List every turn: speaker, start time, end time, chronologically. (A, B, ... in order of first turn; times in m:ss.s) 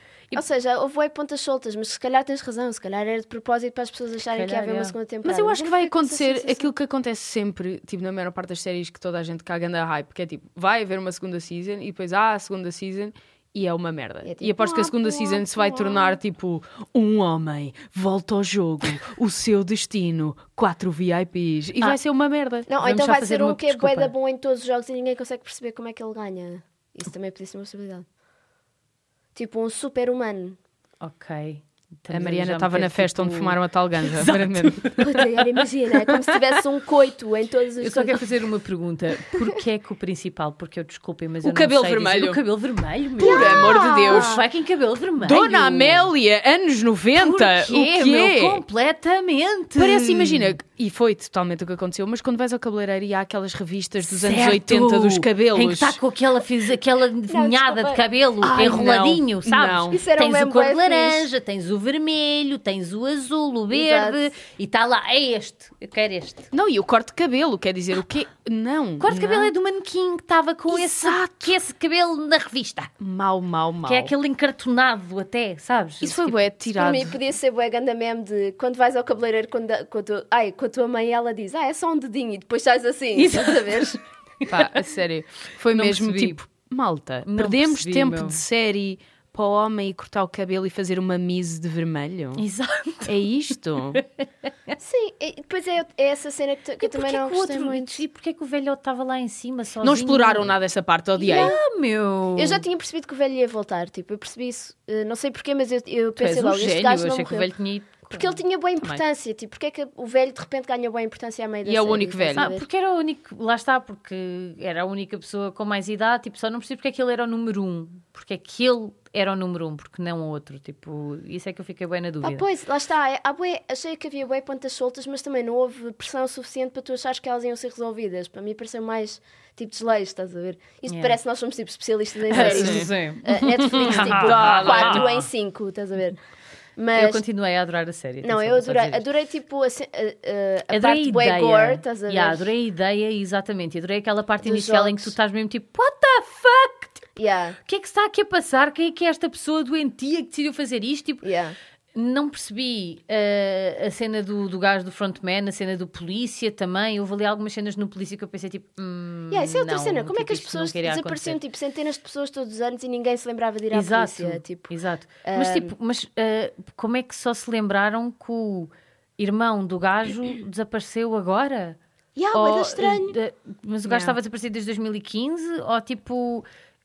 0:00.3-0:06.7 A
0:04.3-0:05.0 B
0:05.2-0:22.7 C
0:14.2-0:16.2 A
0:22.7-0:28.0 A
0:22.8-0:24.1 B
0:29.4-0:30.6 A
0:31.0-0:35.2 B
0:32.1-0:35.0 C
0:35.0-0:38.2 A
0:37.8-0:46.1 B
0:41.4-0:42.4 C
0:43.2-0:44.4 C
0:43.2-0:44.4 A
0:45.2-0:48.6 C
0:47.1-0:50.6 B
0:49.8-0:56.0 C
0:54.0-1:06.5 B
0:57.3-0:58.0 A
0:58.4-1:00.0 C
0:59.9-1:01.3 A
1:03.7-1:04.3 A
1:06.5-1:09.5 C
1:09.0-1:12.9 B
1:10.7-1:11.6 C
1:13.0-1:14.1 C
1:13.8-1:16.4 B
1:16.0-1:17.2 C
1:16.7-1:24.0 A
1:23.1-1:24.9 B
1:24.5-1:32.4 C
1:25.7-1:26.4 B
1:27.3-1:28.4 B
1:32.4-1:33.2 B
1:33.1-1:34.0 C
1:33.9-1:34.7 B
1:34.8-1:38.0 A
1:36.8-1:40.6 B
1:39.8-1:41.6 C
1:41.2-1:41.6 A
1:41.2-1:42.6 B
1:42.4-1:47.5 A
1:46.2-1:48.4 B
1:48.1-1:52.6 A
1:51.6-1:52.5 C
1:52.4-2:02.5 B
2:02.2-2:16.2 A
2:10.9-2:11.2 B
2:12.3-2:15.1 B
2:12.3-2:12.9 C
2:13.6-2:15.2 C
2:16.8-2:17.2 A
2:16.9-2:19.1 B
2:18.2-2:22.5 A
2:20.7-2:27.1 B
2:24.4-2:25.2 A
2:27.2-2:27.6 A
2:27.7-2:31.2 B
2:31.2-2:31.6 A
2:31.9-2:41.4 B
2:39.3-2:44.7 A
2:43.7-2:51.8 B
2:45.2-2:45.7 A
2:52.2-2:53.2 A
2:52.3-2:56.5 B
2:53.9-2:54.2 C